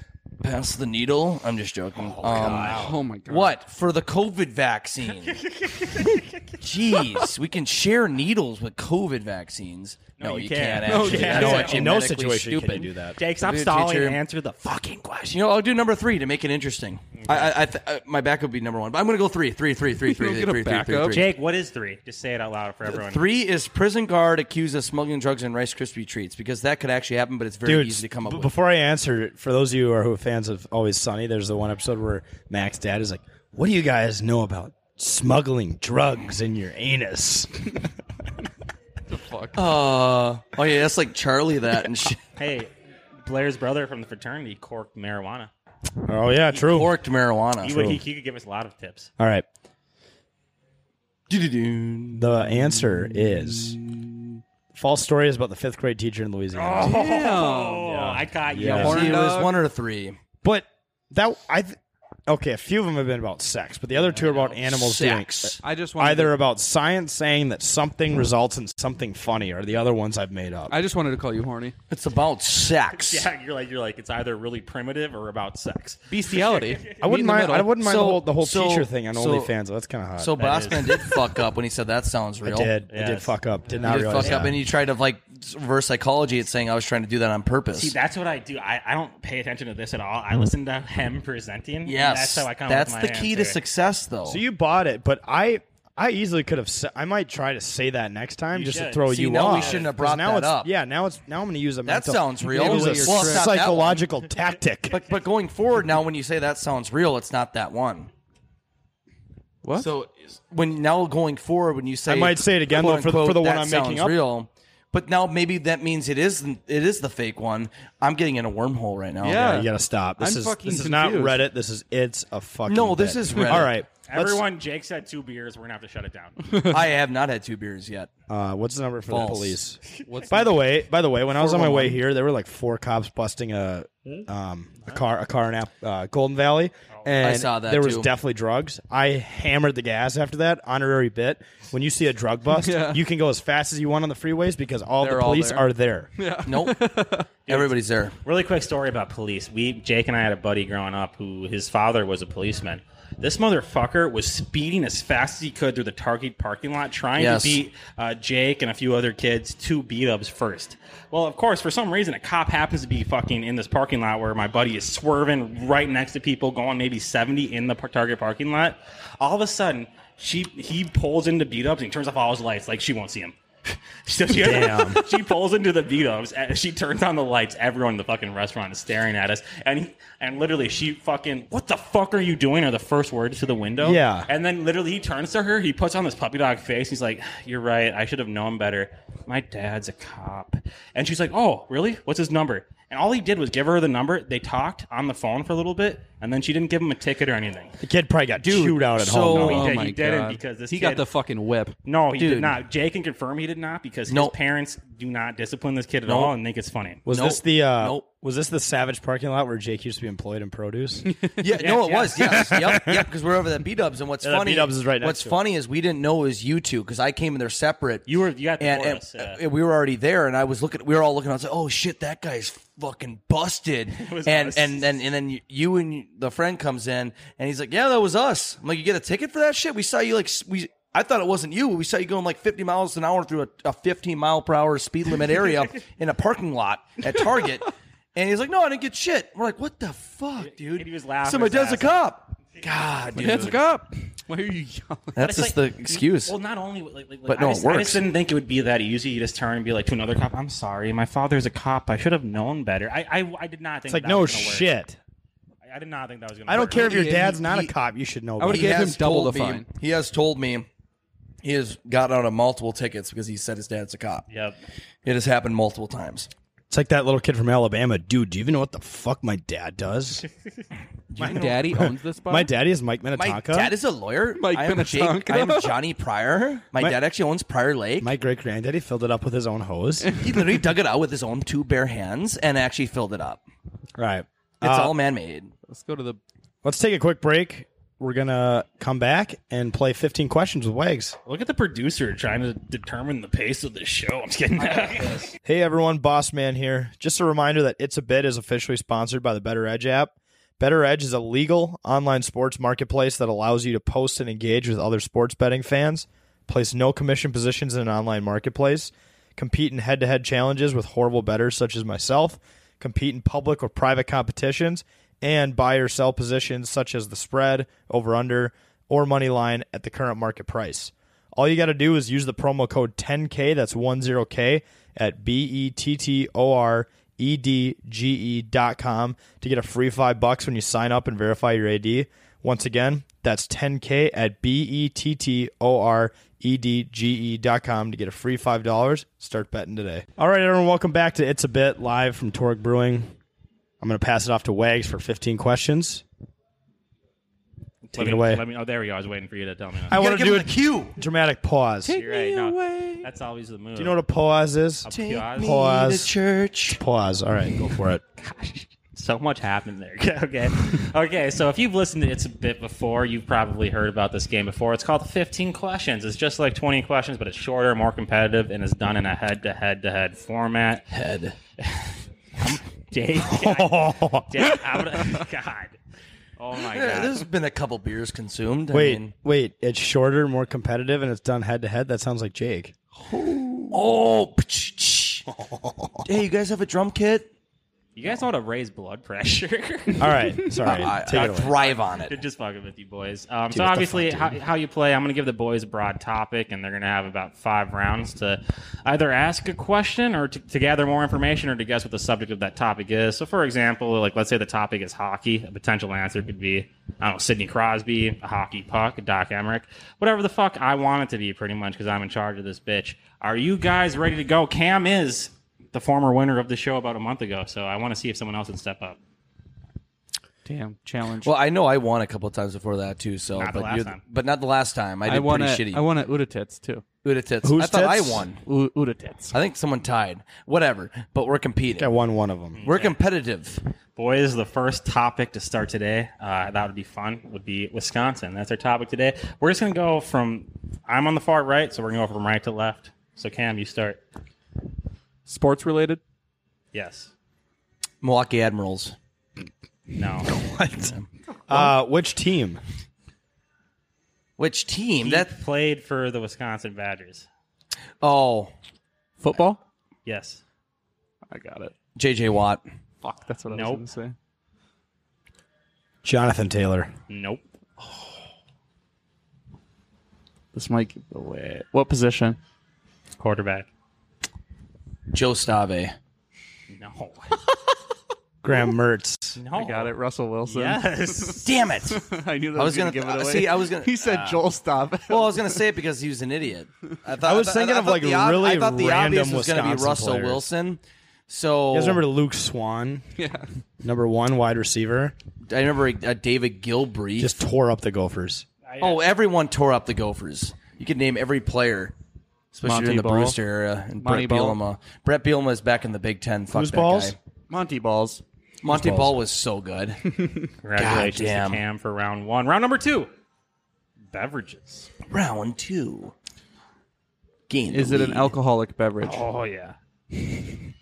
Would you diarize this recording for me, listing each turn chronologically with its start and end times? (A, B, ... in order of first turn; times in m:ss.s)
0:00.4-0:05.4 A
0:02.0-0:02.9 B
0:02.4-0:03.6 C
0:05.2-0:06.4 B
0:06.6-0:14.2 A
0:10.2-0:11.9 B
0:10.8-0:11.6 C
0:10.9-0:13.2 D
0:13.2-0:15.4 B
0:15.3-0:21.3 A
0:17.2-0:17.5 B
0:20.0-0:21.3 C
0:21.1-0:23.2 B
0:22.9-0:28.5 A
0:27.6-0:37.8 D
0:39.1-0:39.6 C
0:39.5-0:42.2 A
0:42.4-0:42.7 B
0:43.2-0:45.5 B
0:46.0-0:46.9 D
0:46.5-0:47.9 A
0:47.6-0:49.1 B
0:47.6-0:48.0 D
0:49.2-0:49.4 D
0:51.3-0:54.4 A
0:52.1-0:53.8 D
0:54.7-0:57.0 D
0:56.5-0:59.1 B
0:56.8-0:58.1 C
0:58.5-0:59.1 D
0:58.6-0:59.6 C
0:58.7-1:00.2 A
1:00.4-1:01.8 D
1:02.3-1:10.7 D
1:04.6-1:05.6 A
1:05.6-1:06.4 C
1:10.7-1:11.8 C
1:11.9-1:13.3 A
1:12.9-1:16.9 B
1:16.1-1:17.8 C
1:17.0-1:20.6 D
1:17.8-1:19.5 A
1:20.2-1:22.7 A
1:20.4-1:21.1 B
1:22.4-1:24.6 D
1:22.9-1:23.3 B
1:23.8-1:27.9 A
1:24.2-1:24.4 B
1:27.7-1:33.6 B
1:31.8-1:34.4 A
1:34.2-1:45.0 D
1:38.5-1:39.8 B
1:39.1-1:40.7 A
1:41.8-1:44.0 A
1:42.4-1:43.8 C
1:44.9-1:48.1 A
1:49.6-1:49.9 C
1:49.8-1:59.5 A
1:52.1-1:54.2 D
1:59.2-2:01.4 C
1:59.4-2:04.4 D
2:02.7-2:03.7 A
2:04.1-2:06.4 B
2:06.6-2:08.1 A
2:08.3-2:26.1 D
2:09.1-2:09.6 A
2:10.0-2:10.6 C
2:11.4-2:12.0 A
2:16.9-2:17.2 B
2:17.2-2:18.1 A
2:22.6-2:23.0 C
2:25.0-2:27.3 C
2:26.4-2:26.8 A
2:27.4-2:28.1 A
2:27.5-2:53.4 B
2:37.2-2:37.6 A
2:54.0-3:17.7 B
2:54.3-2:55.0 D
3:03.8-3:04.3 D
3:17.8-3:19.7 D
3:18.4-3:19.7 A
3:19.3-3:21.0 B
3:19.4-3:21.8 C
3:21.8-3:27.0 B
3:22.2-3:22.6 A
3:24.1-3:24.3 A
3:26.0-3:26.3 A
3:27.0-3:31.1 D
3:27.1-3:28.0 A
3:31.4-3:38.1 A
3:31.6-3:32.5 B
3:32.2-3:33.0 D
3:34.2-3:35.4 D
3:38.0-3:39.4 B
3:38.6-4:03.6 A
3:43.9-3:44.9 B
4:00.4-4:02.0 B
4:03.1-4:05.2 C
4:05.2-4:06.3 A
4:05.2-4:14.7 B
4:07.3-4:08.0 A
4:13.9-4:15.0 D
4:15.6-4:16.9 B
4:16.5-4:18.8 D
4:16.5-4:17.7 C
4:18.4-4:19.7 C
4:18.5-4:20.7 A
4:21.4-4:24.2 A
4:24.3-4:24.6 B
4:25.0-4:26.3 A
4:26.7-4:30.2 D
4:31.1-4:31.8 A
4:31.2-4:33.7 D
4:31.2-4:32.5 C
4:33.1-4:38.1 A
4:34.4-4:35.8 C
4:38.0-4:40.1 D
4:40.2-4:43.4 A
4:44.0-4:44.9 D
4:44.6-4:45.5 A
4:45.7-4:46.2 C
4:46.6-4:51.2 D
4:51.2-4:55.2 B
4:55.4-5:43.1 D
5:43.8-5:46.0 D
5:47.8-5:50.0 B
5:47.9-5:48.4 D
5:49.9-5:51.9 D
5:49.9-5:51.0 A
5:51.8-5:53.1 C
5:51.9-5:54.0 B
5:53.8-5:56.1 D
5:54.8-5:55.5 B
5:54.9-5:56.8 A
5:56.7-5:58.0 D
5:58.2-6:10.9 B
6:10.9-6:11.4 A
6:11.6-6:15.8 B
6:13.2-6:14.5 D
6:16.4-6:17.2 B
6:16.5-6:19.1 A
6:18.7-6:22.7 D
6:23.0-6:23.8 C
6:23.7-6:25.3 A
6:25.4-6:26.0 D
6:26.0-6:27.3 A
6:28.0-6:30.2 B
6:30.0-6:31.5 D
6:30.6-6:32.2 A
6:31.1-6:59.0 B
6:33.5-6:34.4 D
7:00.4-7:01.3 C
7:01.2-7:05.8 A
7:03.4-7:04.0 B
7:05.0-7:06.8 C
7:07.0-7:08.4 A
7:07.4-7:08.2 D
7:08.4-7:09.4 C
7:09.3-7:11.9 A
7:11.8-7:12.6 D
7:12.6-7:13.0 B
7:12.6-7:13.6 A
7:14.0-7:24.0 B
7:25.2-7:26.0 C
7:26.7-7:27.1 B
7:28.0-7:28.9 A
7:30.0-7:30.3 B
7:30.4-7:30.9 D
7:31.5-7:32.6 D
7:34.4-7:35.3 A
7:35.0-7:37.3 B
7:38.0-7:38.5 A
7:39.2-7:39.6 C
7:40.0-7:40.4 B
7:41.3-7:41.7 C
7:42.0-7:42.6 A
7:43.0-7:44.1 C
7:43.5-7:43.8 B
7:46.0-7:46.9 D
7:47.1-7:47.4 B
7:50.5-7:52.4 C
7:53.2-7:53.7 B
7:55.1-7:55.9 A
7:56.7-7:57.4 B
7:58.4-7:59.4 D
7:59.4-8:01.5 B
7:59.5-8:05.6 C
8:01.4-8:04.4 A
8:05.1-8:12.0 A
8:07.2-8:10.5 D
8:11.7-8:13.0 D
8:13.2-8:13.5 C
8:13.8-8:15.1 D
8:15.5-8:17.4 A
8:17.2-8:18.4 D
8:18.7-8:19.0 B
8:18.8-8:21.9 A
8:22.5-8:27.2 A
8:22.6-8:23.4 C
8:24.0-8:24.6 C
8:26.5-8:27.1 D
8:27.5-8:28.2 C
8:28.6-8:30.0 A
8:28.7-8:29.1 D
8:30.6-8:33.1 B
8:30.8-8:31.6 A
8:34.1-8:34.9 B
8:35.1-8:36.1 A
8:37.5-8:38.3 A
8:37.7-8:39.3 C
8:39.0-8:39.8 B